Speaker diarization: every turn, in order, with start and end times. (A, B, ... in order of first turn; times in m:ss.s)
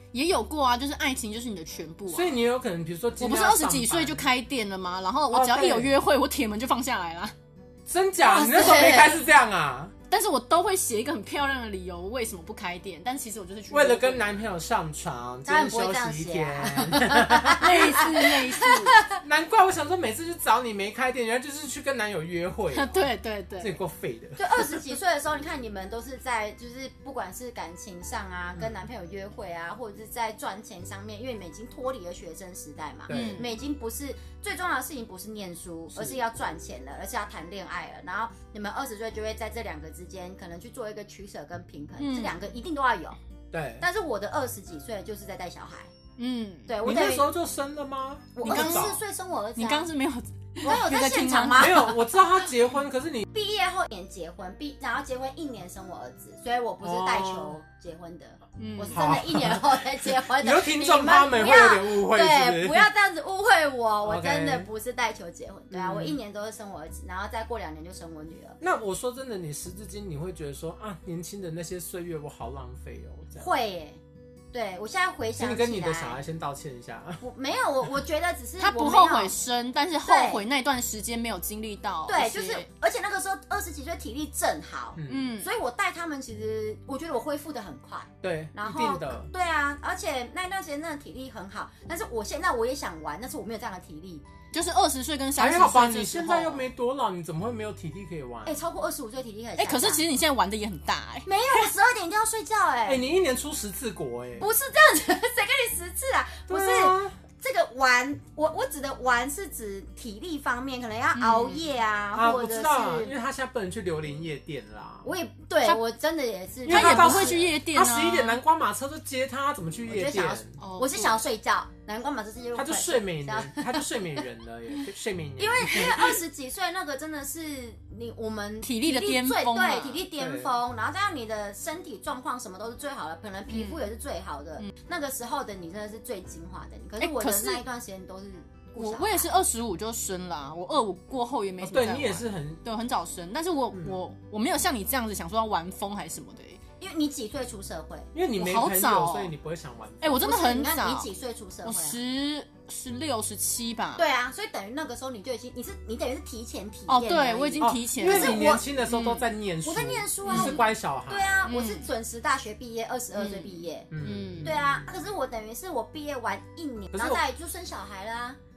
0:00.1-0:02.4 A
0:02.1-0:04.3 B
0:03.2-0:07.3 A
0:05.3-0:06.0 B
0:07.9-0:09.9 B
0:08.2-0:09.2 C
0:10.1-0:14.3 A
0:13.7-0:17.7 B
0:15.4-0:19.2 C
0:17.6-0:19.0 A
0:19.2-0:23.1 B
0:22.7-0:23.8 A
0:23.6-0:24.8 B
0:24.4-0:43.2 C
0:33.1-0:33.5 B
0:33.1-0:33.5 A
0:35.9-0:36.2 B
0:42.0-0:42.4 A
0:43.5-0:43.8 B
0:43.8-0:45.9 C
0:46.2-0:46.7 A
0:46.7-0:47.3 C
0:46.8-0:49.0 B
0:48.4-0:49.9 C
0:48.4-0:49.0 A
0:49.6-0:51.9 A
0:50.6-0:52.2 C
0:50.6-0:50.9 B
0:51.4-0:53.3 B
0:53.3-1:08.6 C
0:56.8-0:57.6 B
0:58.6-0:59.0 A
0:58.8-1:02.9 B
1:04.0-1:04.7 B
1:05.7-1:06.2 B
1:08.6-1:13.5 B
1:13.4-1:14.0 C
1:14.5-1:16.2 C
1:15.4-1:17.2 B
1:17.2-1:19.4 C
1:18.6-1:22.7 A
1:20.0-1:20.4 C
1:22.1-1:34.2 C
1:25.0-1:25.3 B
1:25.1-1:25.5 A
1:28.2-1:29.3 B
1:34.5-1:36.7 A
1:35.4-1:38.6 B
1:38.4-1:40.0 C
1:39.6-1:41.7 A
1:41.2-1:43.0 C
1:42.9-1:44.5 B
1:44.4-1:53.1 C
1:46.5-1:47.2 B
1:51.2-1:51.6 A
1:52.1-1:55.1 B
1:55.0-1:57.5 C
1:56.6-2:00.6 B
1:56.7-1:58.4 A
1:59.9-2:04.2 C
2:00.6-2:01.2 A
2:02.5-2:06.2 B
2:05.4-2:19.3 C
2:08.6-2:10.1 A
2:10.2-2:10.6 B
2:13.5-2:13.9 A
2:17.0-2:17.6 A
2:18.8-2:26.6 A
2:21.6-2:22.6 B
2:23.7-2:24.0 B
2:26.8-2:28.1 C
2:28.1-2:30.2 B
2:28.4-2:29.3 A
2:30.0-2:31.1 A
2:30.1-2:32.0 C
2:31.6-2:34.0 A
2:34.0-2:38.6 C
2:36.9-2:39.3 A
2:37.6-2:41.4 B
2:39.6-2:43.9 C
2:40.3-2:40.6 A
2:41.4-2:41.9 A
2:43.2-2:44.5 A
2:43.9-2:44.6 B
2:44.4-2:48.4 C
2:46.9-2:47.2 B